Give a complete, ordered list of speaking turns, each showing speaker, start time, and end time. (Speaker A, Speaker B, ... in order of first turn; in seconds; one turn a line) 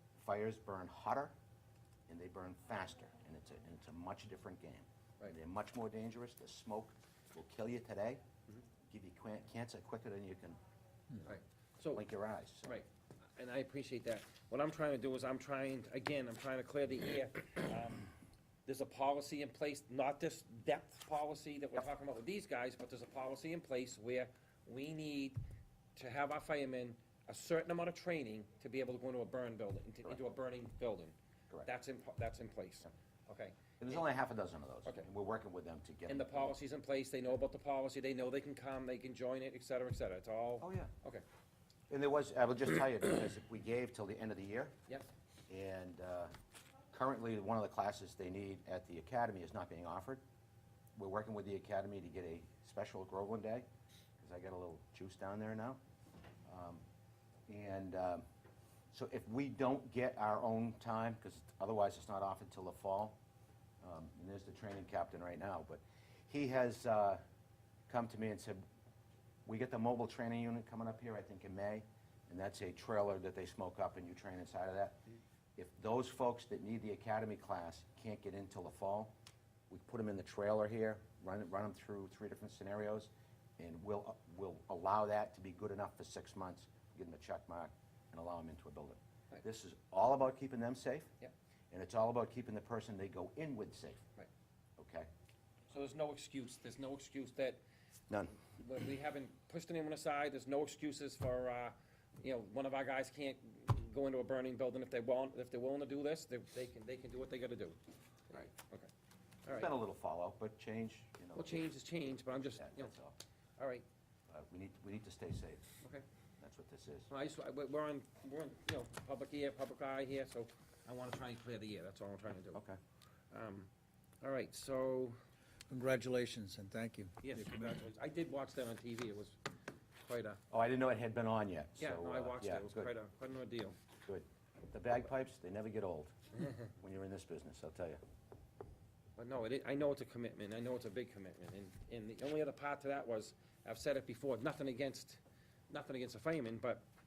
Speaker A: 0.1-1.3
Speaker A: 2.1-8.2
Speaker A: 8.9-10.6
Speaker B: 11.2-12.0
Speaker A: 11.9-12.8
Speaker B: 12.7-18.1
Speaker B: 18.7-25.4
Speaker B: 26.0-34.0
Speaker A: 33.8-36.5
Speaker B: 36.1-41.2
Speaker A: 40.6-40.9
Speaker A: 41.9-44.8
Speaker A: 45.5-46.3
Speaker A: 46.9-50.2
Speaker A: 51.0-53.7
Speaker A: 54.2-55.8
Speaker A: 56.5-56.8
Speaker A: 57.5-58.2
Speaker A: 58.9-63.2
Speaker A: 63.8-67.2
Speaker A: 67.9-68.6
Speaker A: 69.5-75.0
Speaker A: 75.6-79.1
Speaker A: 79.7-91.1
Speaker A: 91.7-94.0
Speaker A: 94.8-95.1
Speaker B: 95.7-97.6
Speaker A: 98.1-98.4
Speaker B: 98.5-107.8
Speaker B: 108.3-108.9
Speaker B: 109.5-109.7
Speaker A: 109.5-111.7
Speaker B: 111.3-112.9
Speaker A: 112.4-113.2
Speaker B: 113.6-113.9
Speaker A: 114.3-115.7
Speaker A: 116.4-117.1
Speaker B: 117.1-122.6
Speaker B: 123.3-123.7
Speaker B: 124.2-125.2
Speaker C: 125.7-127.8
Speaker B: 127.2-129.4
Speaker B: 130.0-130.4
Speaker A: 130.5-132.9
Speaker B: 131.8-133.8
Speaker A: 134.1-138.0
Speaker B: 139.2-146.8